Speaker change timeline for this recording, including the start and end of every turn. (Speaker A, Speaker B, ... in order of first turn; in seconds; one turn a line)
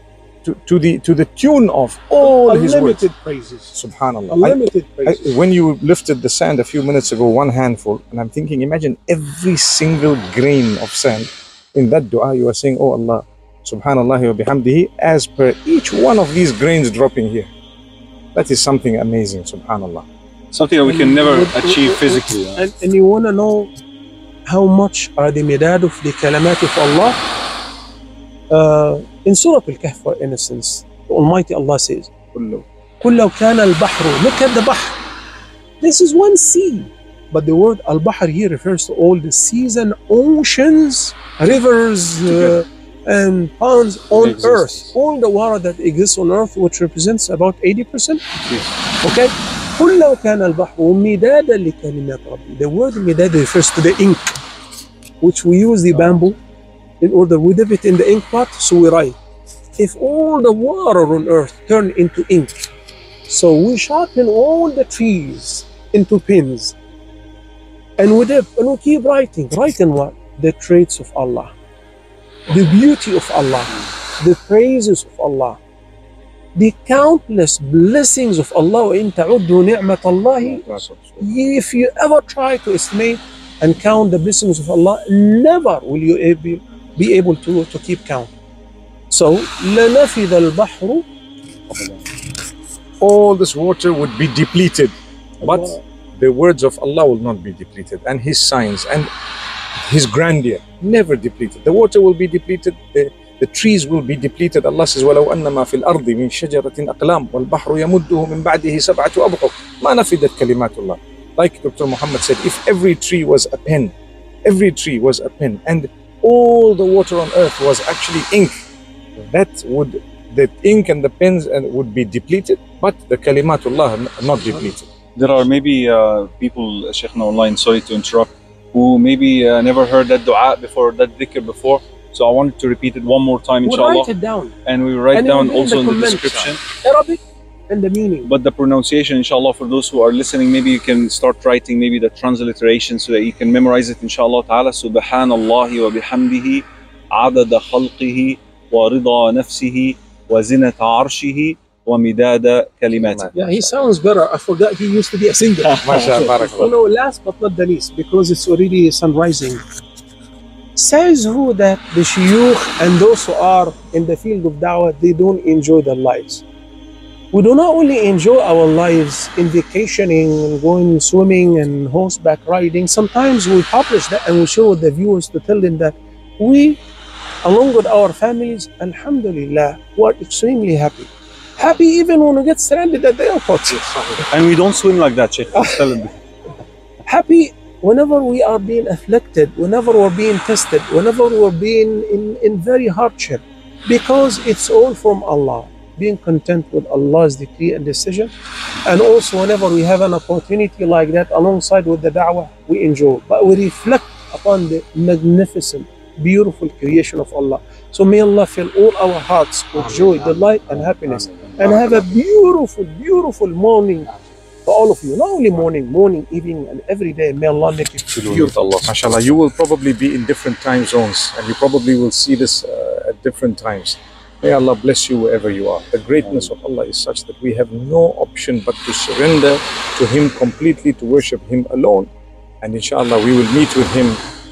Speaker A: 0.4-3.0
Speaker B: 2.2-3.8
Speaker A: 3.7-17.5
Speaker B: 4.3-5.3
Speaker A: 18.3-20.1
Speaker C: 20.5-22.7
Speaker B: 20.8-23.7
Speaker B: 24.4-27.2
Speaker B: 28.5-32.1
Speaker A: 32.3-32.6
Speaker B: 33.0-35.0
Speaker B: 35.8-48.3
Speaker A: 42.2-42.6
Speaker C: 44.1-44.9
Speaker B: 49.0-54.4
Speaker B: 55.2-56.4
Speaker B: 57.0-59.2
Speaker B: 59.8-62.5
Speaker B: 63.3-66.8
Speaker B: 68.0-71.5
Speaker B: 72.5-75.6
Speaker B: 76.5-88.3
Speaker A: 80.4-81.3
Speaker B: 89.1-91.0
Speaker C: 91.7-92.0
Speaker A: 93.0-99.1
Speaker B: 95.4-95.8
Speaker A: 99.8-118.5
Speaker A: 119.2-124.9
Speaker C: 125.2-134.1
Speaker B: 133.6-134.5
Speaker C: 134.7-136.6
Speaker B: 135.1-138.3
Speaker C: 138.2-153.3
Speaker A: 152.9-153.7
Speaker B: 153.3-159.6
Speaker C: 155.7-156.4
Speaker A: 155.8-156.8
Speaker B: 160.7-166.4
Speaker B: 167.3-176.8
Speaker B: 177.4-184.2
Speaker A: 183.7-184.2
Speaker C: 184.3-186.2
Speaker B: 187.1-198.3
Speaker B: 198.8-214.1
Speaker A: 209.8-212.0
Speaker C: 211.3-211.6
Speaker B: 214.7-218.7
Speaker C: 218.1-219.2
Speaker A: 218.8-232.1
Speaker C: 226.2-226.5
Speaker A: 232.6-234.2